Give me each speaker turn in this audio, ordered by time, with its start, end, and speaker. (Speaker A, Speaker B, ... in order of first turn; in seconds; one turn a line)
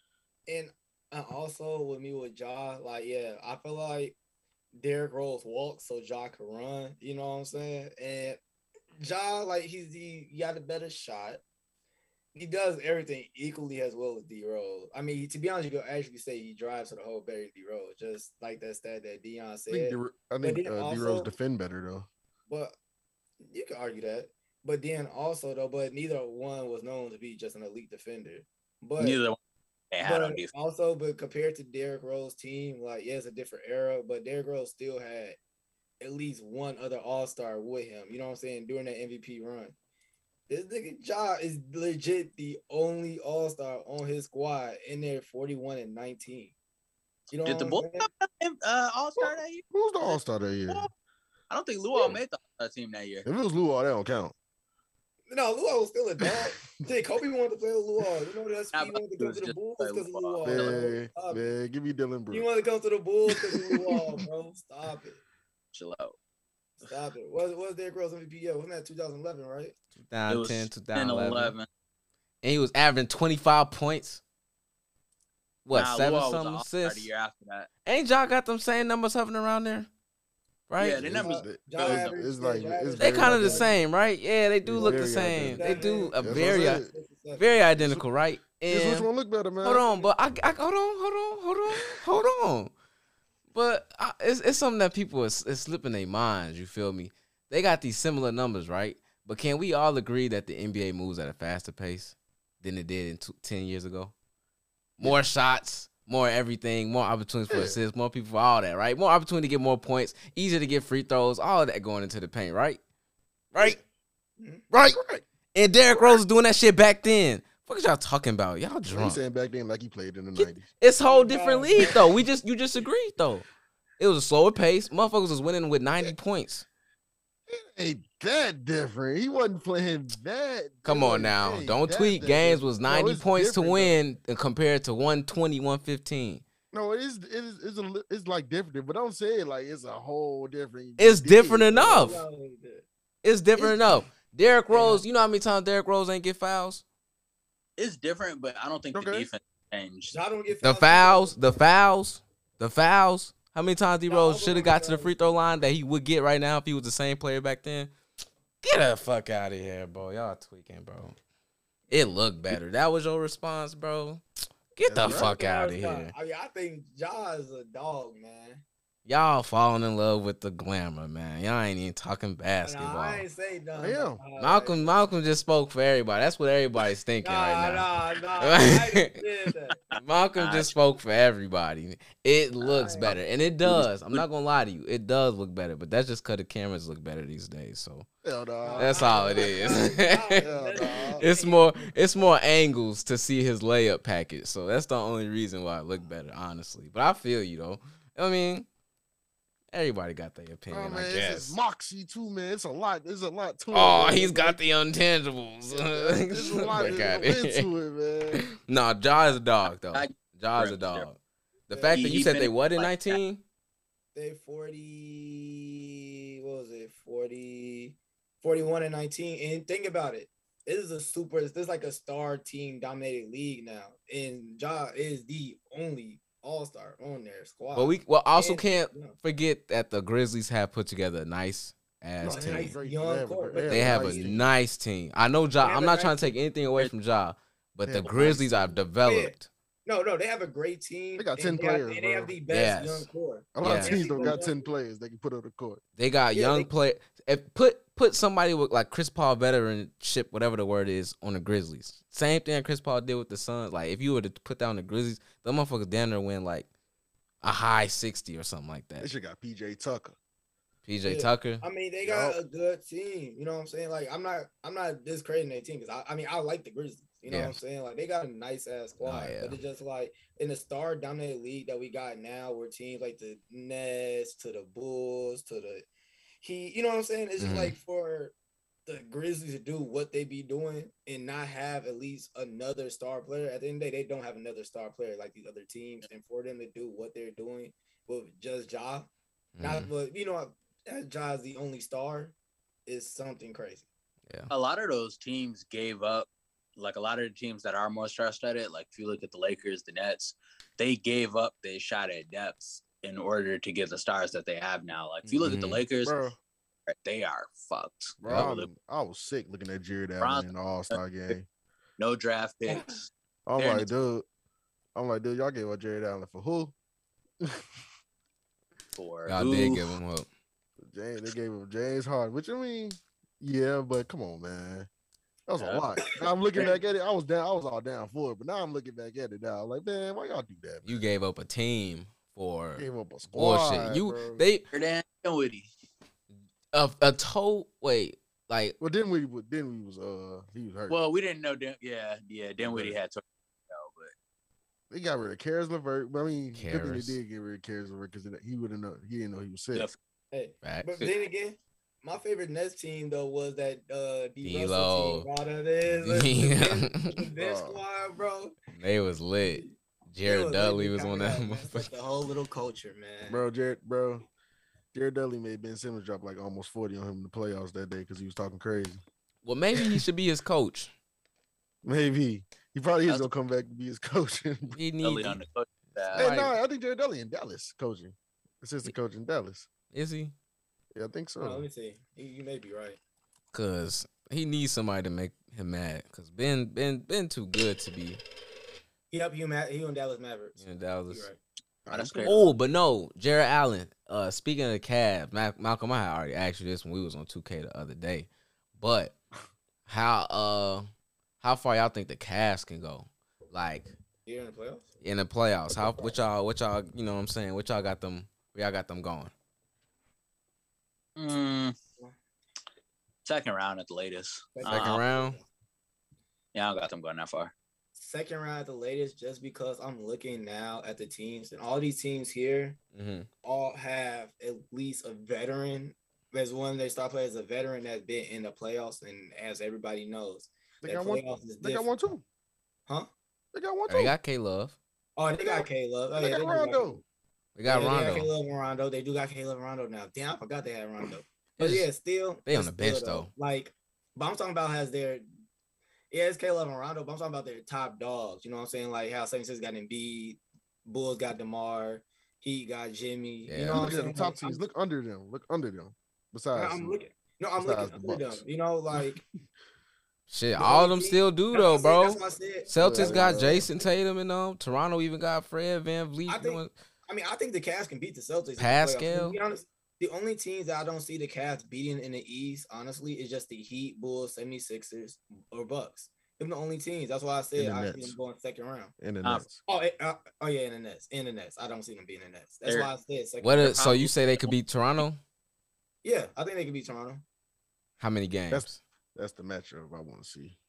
Speaker A: 0.5-4.2
Speaker A: 4.8-8.4
Speaker A: 9.0-11.4
Speaker A: 12.3-21.3
Speaker B: 19.7-22.1
Speaker A: 22.5-22.8
Speaker A: 23.4-29.2
Speaker C: 29.0-29.4
Speaker C: 29.9-30.5
Speaker A: 30.0-35.4
Speaker A: 36.0-39.8
Speaker A: 40.5-46.5
Speaker A: 47.3-48.1
Speaker C: 47.5-50.9
Speaker B: 49.2-50.9
Speaker C: 51.5-53.3
Speaker B: 53.2-54.3
Speaker A: 55.3-61.5
Speaker B: 56.3-56.7
Speaker C: 58.7-60.9
Speaker B: 60.5-62.5
Speaker A: 62.3-65.2
Speaker B: 63.3-64.2
Speaker C: 65.7-66.2
Speaker A: 66.8-69.8
Speaker D: 70.0-71.5
Speaker C: 70.3-71.7
Speaker D: 72.4-74.2
Speaker D: 75.7-77.1
Speaker C: 75.7-77.7
Speaker D: 77.9-79.9
Speaker D: 80.7-81.1
Speaker C: 80.8-82.2
Speaker B: 81.0-83.7
Speaker A: 81.2-83.8
Speaker D: 83.0-86.8
Speaker B: 84.7-86.9
Speaker A: 85.5-87.5
Speaker D: 87.3-89.1
Speaker B: 87.8-88.1
Speaker B: 88.7-90.1
Speaker D: 89.6-92.7
Speaker D: 93.5-104.1
Speaker D: 105.0-112.8
Speaker B: 107.5-107.8
Speaker D: 113.5-113.8
Speaker B: 114.7-115.2
Speaker D: 115.5-119.2
Speaker B: 115.9-116.2
Speaker B: 118.9-120.7
Speaker D: 120.4-123.5
Speaker A: 121.1-122.2
Speaker D: 124.0-126.7
Speaker B: 127.5-134.0
Speaker D: 130.8-136.4
Speaker B: 136.7-142.2
Speaker D: 141.0-142.2
Speaker A: 141.7-142.8
Speaker D: 143.2-146.8
Speaker B: 143.6-143.9
Speaker A: 144.7-145.0
Speaker C: 147.8-150.1
Speaker B: 148.9-149.3
Speaker A: 150.1-151.4
Speaker D: 150.6-157.9
Speaker A: 154.1-155.3
Speaker D: 158.6-161.2
Speaker D: 161.9-164.2
Speaker D: 164.8-166.1
Speaker B: 164.8-165.3
Speaker A: 165.0-168.6
Speaker D: 169.1-173.2
Speaker A: 172.6-175.0
Speaker B: 173.8-174.2
Speaker D: 174.4-179.2
Speaker A: 177.2-179.8
Speaker C: 179.9-180.8
Speaker D: 180.0-188.1
Speaker A: 182.6-183.2
Speaker C: 183.7-184.2
Speaker B: 188.2-189.8
Speaker A: 188.6-192.3
Speaker D: 188.8-190.5
Speaker B: 190.4-191.2
Speaker D: 191.2-198.7
Speaker D: 199.7-201.6
Speaker B: 200.7-204.6
Speaker D: 203.7-207.7
Speaker B: 205.7-208.4
Speaker D: 208.3-211.2
Speaker C: 209.9-211.1
Speaker D: 211.7-213.4
Speaker A: 211.7-212.2
Speaker C: 211.9-213.2
Speaker A: 214.1-229.2
Speaker D: 227.7-232.8
Speaker B: 232.2-234.4
Speaker A: 232.3-234.3
Speaker D: 233.7-239.5
Speaker A: 235.6-236.3
Speaker B: 237.9-238.7
Speaker C: 238.1-238.4
Speaker A: 239.1-239.3
Speaker A: 239.8-244.7
Speaker B: 241.2-242.4
Speaker D: 242.5-243.1
Speaker B: 243.6-245.8
Speaker D: 243.6-244.0
Speaker D: 246.0-256.7
Speaker A: 246.3-246.7
Speaker D: 257.4-259.1
Speaker B: 259.0-260.2
Speaker D: 260.9-261.6
Speaker A: 261.1-275.9
Speaker B: 262.0-262.4
Speaker D: 267.3-267.6
Speaker D: 269.0-269.6
Speaker A: 276.4-278.3
Speaker D: 277.4-277.8
Speaker A: 278.9-289.1
Speaker D: 289.6-289.9
Speaker A: 289.6-292.4
Speaker A: 292.9-293.9
Speaker C: 294.5-306.2
Speaker D: 305.3-305.8
Speaker B: 306.0-306.4
Speaker C: 306.9-308.7
Speaker B: 308.2-311.5
Speaker D: 308.2-308.5
Speaker C: 310.2-311.0
Speaker C: 312.0-313.9
Speaker A: 312.7-312.9
Speaker B: 313.5-314.3
Speaker B: 314.9-316.7
Speaker C: 319.0-319.9
Speaker D: 319.3-320.3
Speaker B: 320.8-324.9
Speaker B: 325.5-330.9
Speaker C: 325.6-325.9
Speaker D: 330.9-334.6
Speaker B: 332.8-334.4
Speaker C: 334.7-335.7
Speaker D: 336.7-338.8
Speaker B: 338.8-341.0
Speaker C: 340.9-344.1
Speaker B: 342.6-343.0
Speaker B: 344.9-349.9
Speaker D: 346.5-347.2
Speaker A: 350.3-358.6
Speaker D: 350.6-351.1
Speaker D: 354.4-355.3
Speaker D: 355.9-357.2
Speaker B: 357.4-357.8
Speaker D: 358.8-361.9
Speaker A: 359.4-359.7
Speaker A: 360.3-363.4
Speaker B: 363.3-364.2
Speaker B: 364.9-369.0
Speaker D: 369.4-370.9
Speaker B: 371.8-374.8
Speaker D: 374.8-375.4
Speaker C: 375.0-376.3
Speaker D: 375.9-376.6
Speaker B: 376.1-379.7
Speaker D: 379.9-380.3
Speaker B: 380.9-381.7
Speaker A: 381.4-383.0
Speaker D: 383.5-388.2
Speaker A: 389.1-391.4
Speaker D: 390.6-391.3
Speaker B: 391.9-392.3
Speaker C: 391.9-392.5
Speaker D: 392.2-399.1
Speaker D: 399.9-400.9
Speaker D: 401.4-403.9
Speaker A: 404.3-404.9
Speaker D: 405.0-409.3
Speaker A: 405.8-406.1
Speaker C: 411.2-411.7
Speaker C: 413.2-415.0
Speaker A: 414.6-415.4
Speaker D: 414.7-415.4
Speaker C: 416.5-417.5
Speaker A: 418.0-422.8
Speaker D: 422.9-423.3
Speaker A: 423.4-431.9
Speaker B: 430.8-432.2
Speaker B: 433.5-434.1
Speaker D: 433.9-434.8
Speaker A: 435.2-437.0
Speaker B: 435.4-437.0
Speaker D: 437.6-438.3
Speaker A: 437.7-445.2
Speaker D: 441.6-441.9
Speaker D: 442.5-443.3
Speaker A: 446.1-454.6
Speaker D: 453.5-454.1
Speaker B: 453.7-456.9
Speaker A: 456.6-459.2
Speaker B: 457.6-458.4
Speaker B: 458.9-459.2
Speaker D: 460.3-466.7
Speaker A: 460.6-463.4
Speaker B: 462.8-463.7
Speaker A: 466.3-478.9
Speaker D: 468.6-469.4
Speaker B: 477.6-478.2
Speaker B: 479.0-479.6
Speaker A: 479.7-483.8
Speaker C: 482.7-482.9
Speaker D: 483.4-485.2
Speaker C: 483.6-484.5
Speaker A: 486.0-487.2
Speaker D: 488.0-488.8
Speaker B: 488.5-490.6